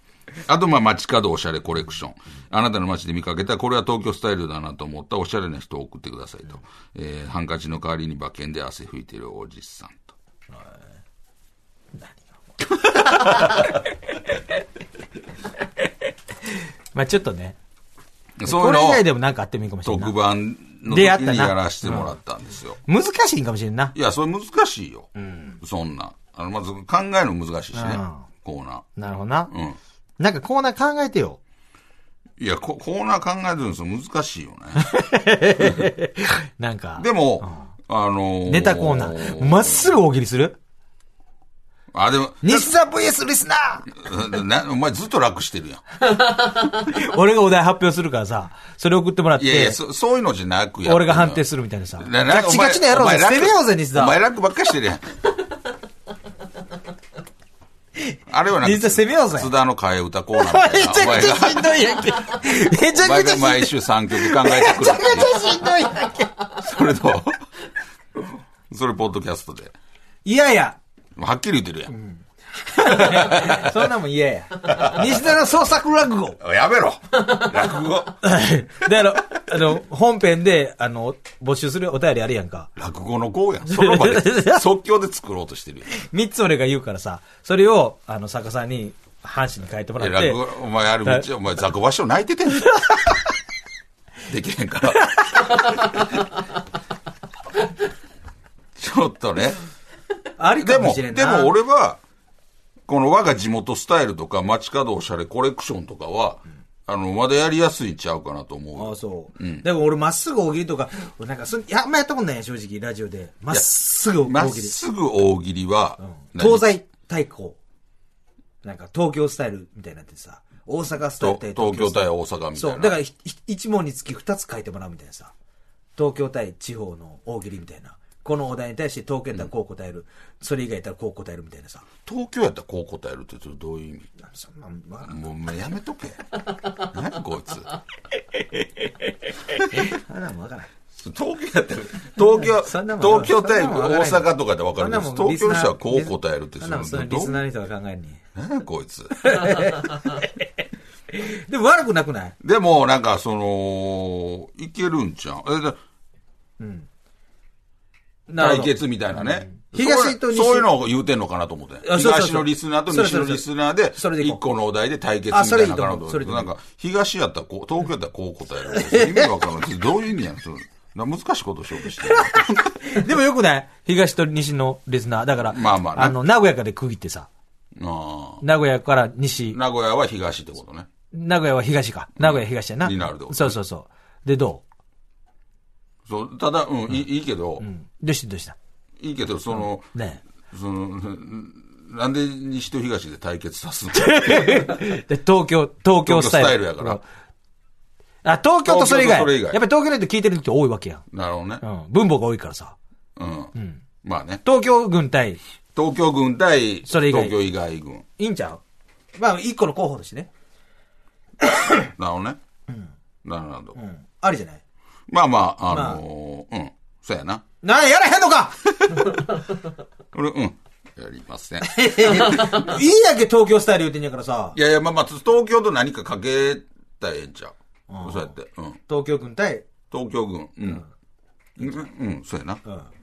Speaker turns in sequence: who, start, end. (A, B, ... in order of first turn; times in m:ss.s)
0:00.4-0:10.1 A
0:10.5-0:10.8 B
0:11.9-0:13.8 B
0:16.9-0:17.6 B
0:18.4-0:19.0 A
0:18.4-0:20.1 B
0:19.8-0:22.8 A
0:20.9-0:22.1 B
0:22.8-0:24.0 B
0:23.9-0:25.1 A
0:25.2-0:25.6 B
0:25.6-0:28.8 A
0:27.7-0:28.2 B
0:29.0-0:29.5 B
0:29.5-0:29.8 A
0:30.2-0:31.4 B
0:32.4-0:34.9 A
0:34.8-0:37.6 B
0:37.0-0:39.9 A
0:38.4-0:40.6 B
0:41.9-0:42.7 A
0:42.4-0:43.9 B
0:43.9-0:45.8 A
0:46.2-0:49.8 B
0:49.4-0:51.4 A
0:50.8-0:54.2 B
0:52.0-0:55.0 A
0:58.1-0:59.5 B
0:58.3-1:05.6 A
1:00.3-1:06.3 B
1:06.4-1:07.5 A
1:08.2-1:09.7 A
1:10.2-1:10.8 B
1:11.2-1:11.9 A
1:11.9-1:16.4 B
1:12.8-1:13.8 A
1:14.6-1:15.4 A
1:16.4-1:18.2 A
1:18.2-1:22.7 B
1:22.8-1:25.9 A
1:23.7-1:24.6 B
1:25.9-1:30.4 B
1:30.0-1:33.1 A
1:34.3-1:36.0 A
1:38.8-1:39.6 A
1:40.4-1:41.5 B
1:40.5-1:42.0 A
1:42.9-1:49.6 A
1:48.7-1:54.8 B
1:53.5-1:56.7 A
1:56.0-1:57.6 B
1:58.6-2:05.3 B
2:01.2-2:02.9 A
2:06.0-2:11.8 B
2:12.0-2:14.1 A
2:14.2-2:15.2 B
2:15.0-2:17.7 A
2:19.6-2:20.7 B
2:20.9-2:27.4 A
2:22.3-2:28.2 B
2:28.3-2:29.2 A
2:29.1-2:30.4 B
2:31.1-2:32.4 B
2:32.4-2:35.8 A
2:36.6-2:36.9 B
2:38.3-2:40.7 B
2:38.4-2:52.6 A
2:41.8-2:44.4 B
2:45.3-2:46.5 B
2:48.7-2:49.3 B
2:51.8-2:57.3 B
2:55.5-2:56.2 A
2:57.7-2:58.4 A
2:58.4-2:59.6 B
2:59.5-3:00.9 A
3:01.1-3:04.6 B
3:02.2-3:03.6 A
3:06.0-3:07.6 A
3:07.6-3:08.6 B
3:09.0-3:09.9 A
3:09.5-3:10.2 B
3:10.4-3:14.8 A
3:13.9-3:17.0 B
3:16.0-3:17.0 A
3:18.2-3:21.0 B
3:18.6-3:19.6 A
3:21.1-3:21.6 A
3:21.6-3:22.8 B
3:23.2-3:24.4 A
3:23.5-3:23.8 B
3:24.4-3:25.4 B
3:25.7-3:28.0 A
3:26.8-3:27.4 B
3:28.2-3:28.6 B
3:29.2-3:30.3 B
3:32.0-3:32.4 A
3:33.2-3:33.8 A
3:33.7-3:34.6 B
3:35.1-3:37.4 A
3:35.7-3:36.0 B
3:37.6-3:39.2 B
3:40.1-3:42.6 A
3:41.6-3:44.6 B
3:44.5-3:48.8 A
3:47.9-3:48.3 B
3:48.9-3:49.7 B
3:49.9-3:50.8 A
3:51.6-3:51.9 B
3:51.6-3:52.6 A
3:52.6-3:52.9 B